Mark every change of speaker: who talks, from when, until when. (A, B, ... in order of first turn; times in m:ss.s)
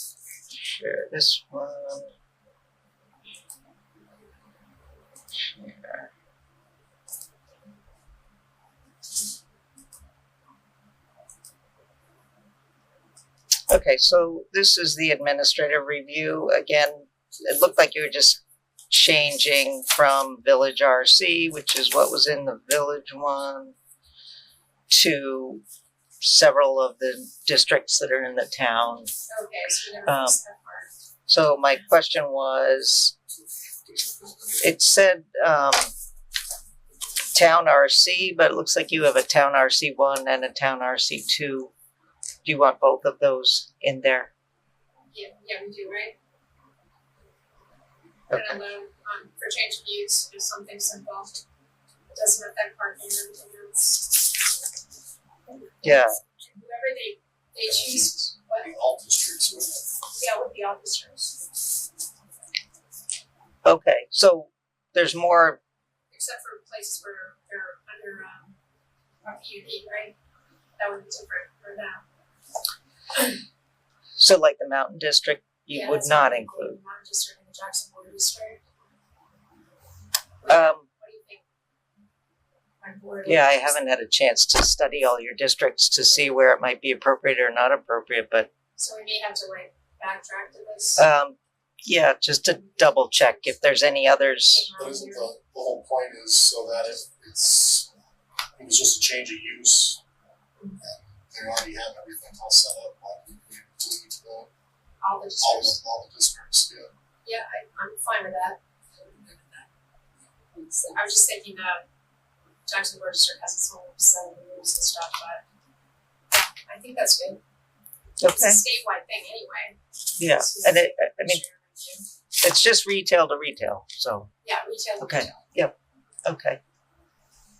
0:00.6-0:02.1 A
0:05.3-0:06.1 A
0:13.7-0:23.8 A
0:24.9-0:25.6 A
0:26.2-0:29.1 A
0:29.3-0:30.9 B
0:30.1-0:30.4 A
0:31.3-0:33.1 A
0:34.6-0:35.9 A
0:37.3-0:41.7 A
0:42.4-0:44.3 A
0:45.1-0:46.2 B
0:48.3-0:48.6 A
0:48.3-0:51.4 B
0:52.1-0:54.3 B
0:55.8-0:58.7 B
0:55.8-0:56.2 A
0:57.7-0:59.9 C
1:00.1-1:01.4 B
1:03.6-1:05.6 A
1:06.1-1:08.6 B
1:09.2-1:10.1 B
1:10.8-1:12.0 B
1:14.2-1:16.8 A
1:15.7-1:18.6 B
1:20.4-1:21.4 B
1:20.5-1:20.8 A
1:22.8-1:23.8 B
1:23.3-1:28.5 A
1:28.8-1:31.1 B
1:31.0-1:34.7 A
1:34.5-1:35.3 B
1:34.8-1:37.9 C
1:38.6-1:40.0 C
1:40.8-1:44.5 C
1:45.0-1:45.8 B
1:45.4-1:46.9 C
1:47.2-1:49.7 B
1:50.6-1:51.8 B
1:52.7-1:55.4 B
1:56.3-1:57.4 B
1:58.2-1:58.6 A
1:58.2-1:59.8 B
2:00.2-2:01.4 A
2:00.3-2:02.0 B
2:02.4-2:04.3 A
2:04.4-2:05.4 B
2:05.0-2:06.6 A